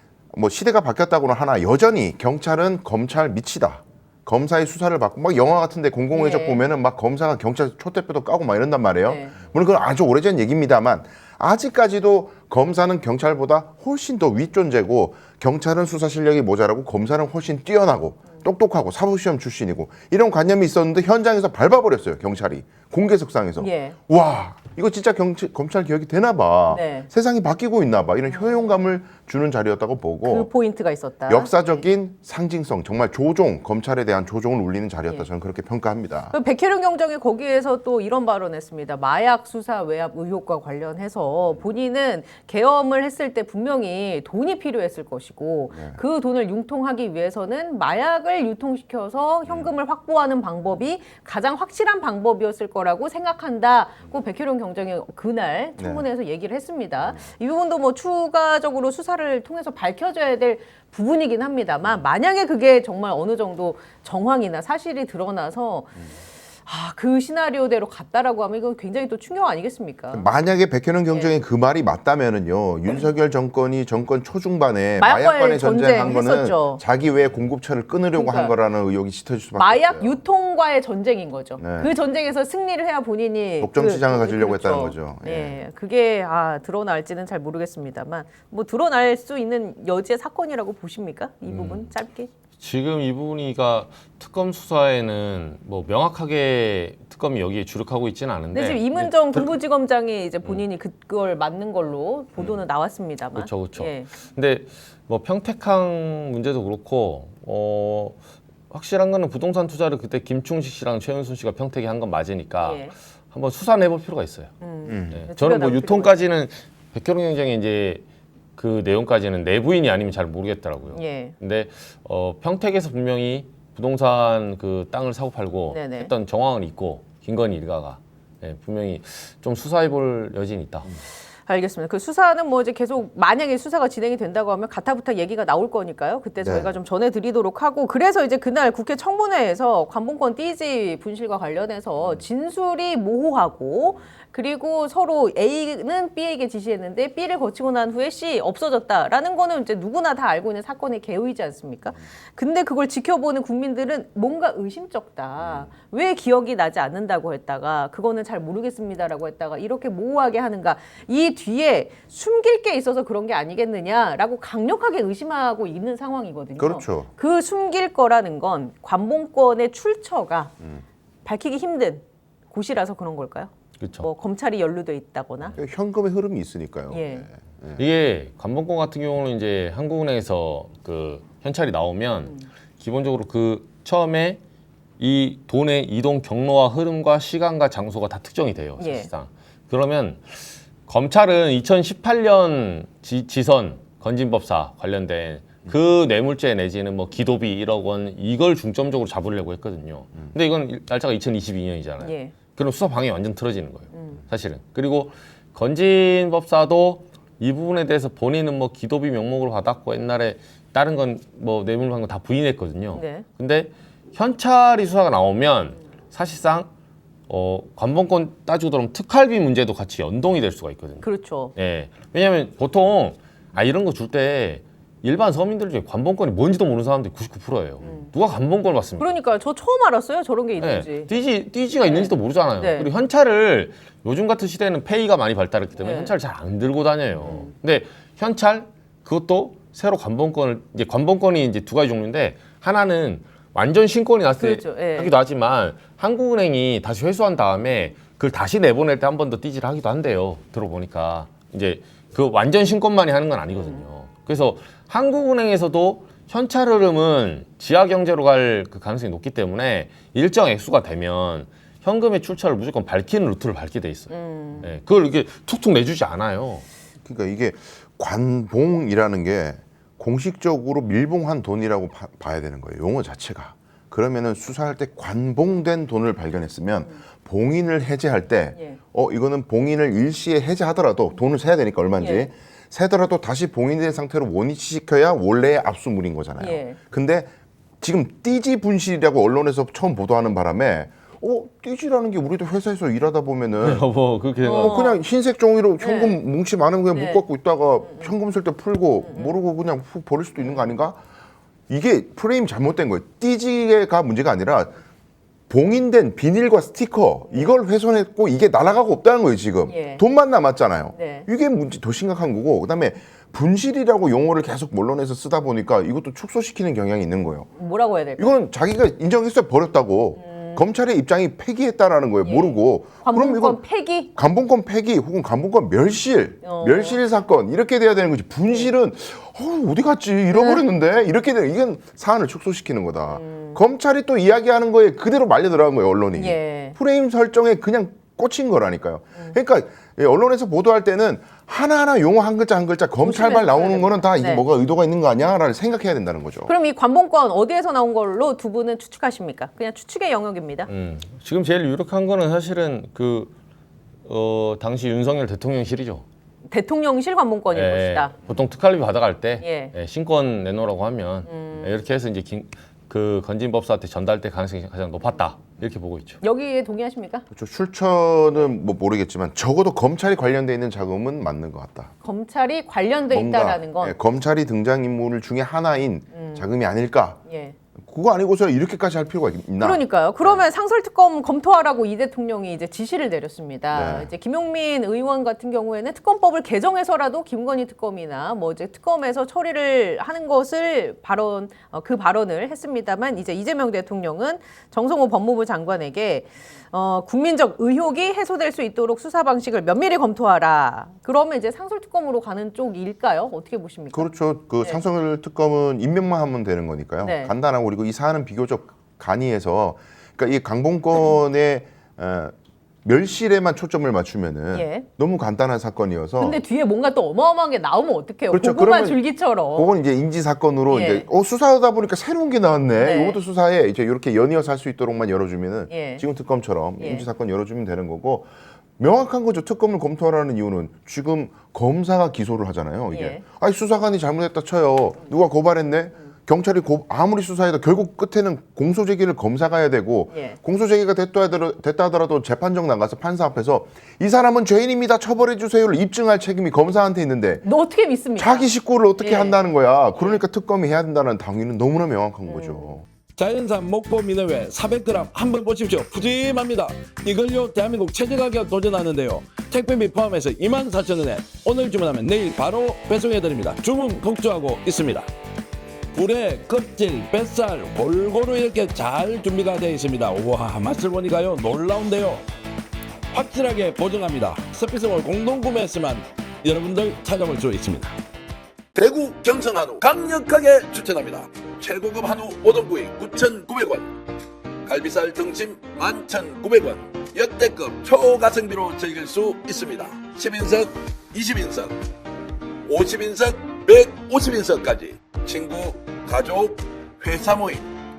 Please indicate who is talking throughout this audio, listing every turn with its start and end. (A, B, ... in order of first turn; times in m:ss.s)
0:00.3-0:30.5 A
0:06.1-0:06.6 B
0:09.0-0:09.4 B
0:23.6-0:24.0 B
0:26.7-0:27.1 B
0:28.3-0:28.7 B
0:30.2-0:31.5 B
0:31.3-0:36.3 A
0:36.3-1:06.1 B
0:45.7-0:46.0 A
0:55.8-0:56.0 A
1:06.6-1:10.2 B
1:10.1-1:20.2 A
1:15.0-1:16.8 B
1:18.1-1:18.5 B
1:19.6-1:32.3 B
1:21.6-1:21.9 A
1:23.6-1:25.6 A
1:31.5-1:31.9 C
1:32.6-1:39.6 C
1:38.5-1:44.1 B
1:43.4-1:48.2 C
1:48.7-1:54.5 C
1:52.6-1:52.9 B
1:54.6-1:56.2 B
1:54.9-1:55.2 A
1:55.1-1:58.0 C
1:58.6-2:11.0 C
2:00.9-2:01.4 B
2:05.7-2:06.1 B
2:11.5-2:50.6 B
2:16.4-2:16.7 A
2:35.4-2:35.7 A
2:46.6-2:47.1 A
2:51.2-2:55.6 B
2:53.8-2:54.1 C
2:55.6-2:57.8 A
2:56.9-2:57.2 B
2:57.8-3:04.4 C
3:05.0-3:36.7 C
3:08.8-3:09.1 B
3:22.0-3:22.3 B
3:23.9-3:24.2 B
3:32.9-3:33.2 B
3:37.3-3:49.1 C
3:41.0-3:41.5 B
3:49.0-3:51.1 B
3:50.6-4:26.6 C
3:51.8-3:52.9 B
3:55.8-3:56.1 B
3:57.2-3:57.5 B
4:04.4-4:05.1 B
4:24.1-4:24.7 B
4:27.0-4:53.8 A
4:42.0-4:42.3 B
4:46.4-4:46.8 B
4:53.6-4:54.8 C
4:54.4-4:55.0 B
4:54.6-5:01.0 A
4:55.8-4:56.2 B
4:56.9-4:57.2 B
4:57.9-4:58.1 B
4:59.0-4:59.3 B
5:01.7-5:04.7 A
5:05.5-5:17.5 A
5:07.3-5:07.5 B
5:09.7-5:10.0 B
5:10.9-5:11.3 B
5:17.6-5:18.4 B
5:18.2-5:46.5 A
5:20.2-5:20.6 B
5:22.2-5:24.1 B
5:26.4-5:27.0 B
5:30.3-5:30.6 B
5:33.1-5:33.6 B
5:36.2-5:36.8 B
5:43.0-5:44.4 B
5:46.4-5:50.7 B
5:50.7-5:53.3 C
5:54.0-5:56.0 C
5:56.5-5:58.1 B
5:57.5-6:06.2 C
5:59.4-5:59.7 B
6:01.3-6:01.7 B
6:06.2-6:07.2 B
6:07.3-6:11.9 A
6:12.0-6:14.0 B
6:13.1-6:17.2 A
6:16.1-6:16.5 B
6:17.2-6:17.6 B
6:17.8-6:20.4 A
6:19.6-6:44.8 B
6:23.7-6:24.1 A
6:43.9-6:56.4 A
6:47.0-6:47.3 B
6:54.5-6:54.8 B
6:56.2-6:59.7 B
6:58.3-7:27.4 A
7:00.7-7:01.1 B
7:02.8-7:03.2 B
7:05.7-7:06.0 B
7:06.8-7:07.0 B
7:12.9-7:13.2 B
7:20.1-7:20.4 B
7:27.4-7:28.5 B
7:28.2-7:32.8 A
7:29.0-7:29.4 B
7:29.9-7:30.2 B
7:32.2-7:32.8 B
7:33.2-7:45.1 D
7:45.9-7:52.2 D
7:53.1-7:58.0 D
7:58.7-8:03.9 D
8:04.6-8:11.7 D
8:12.6-8:17.7 D